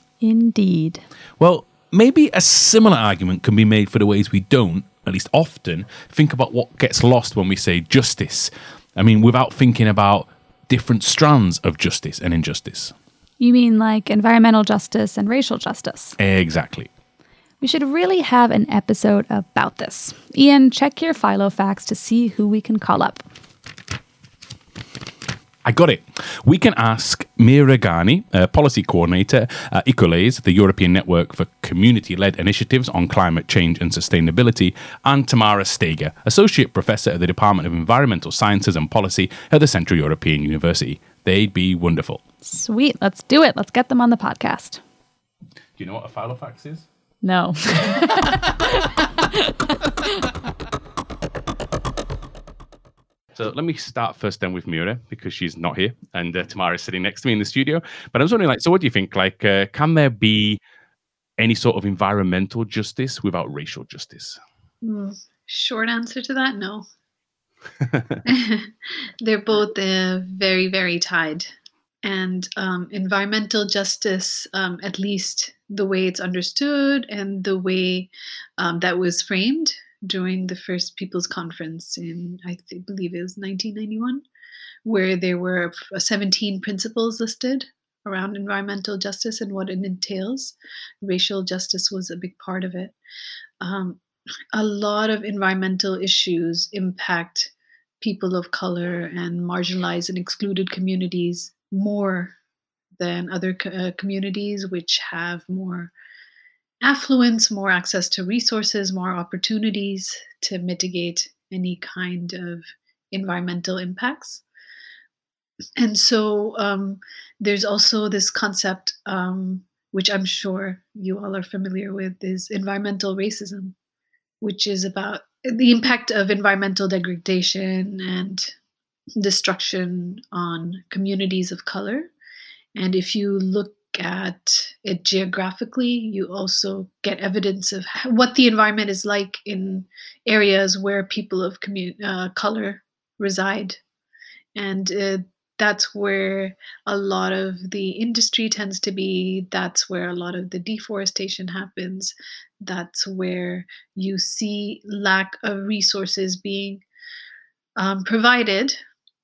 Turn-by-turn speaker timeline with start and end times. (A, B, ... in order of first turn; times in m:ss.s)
0:00.2-0:01.0 A
0:01.4-0:12.9 B
0:13.4-0:16.2 A
0:16.2-0:16.9 B
0:17.6-0:23.2 A
0:25.6-0:42.2 B
0:42.4-0:44.8 A
0:45.8-0:46.9 B
0:47.2-0:48.6 A
0:53.3-1:00.6 B
1:01.4-1:04.4 B
1:04.8-1:06.8 C
1:07.8-1:08.2 B
1:08.2-1:11.5 C
1:12.0-1:24.2 C
1:24.8-1:32.9 C
1:33.6-1:34.0 C
1:34.5-1:42.3 C
1:43.0-1:45.9 C
1:46.8-1:54.4 C
1:55.8-2:03.7 C
2:04.4-2:08.5 C
2:09.2-2:12.1 C
2:12.8-2:23.8 C
2:24.6-2:36.8 C
2:37.8-2:38.8 C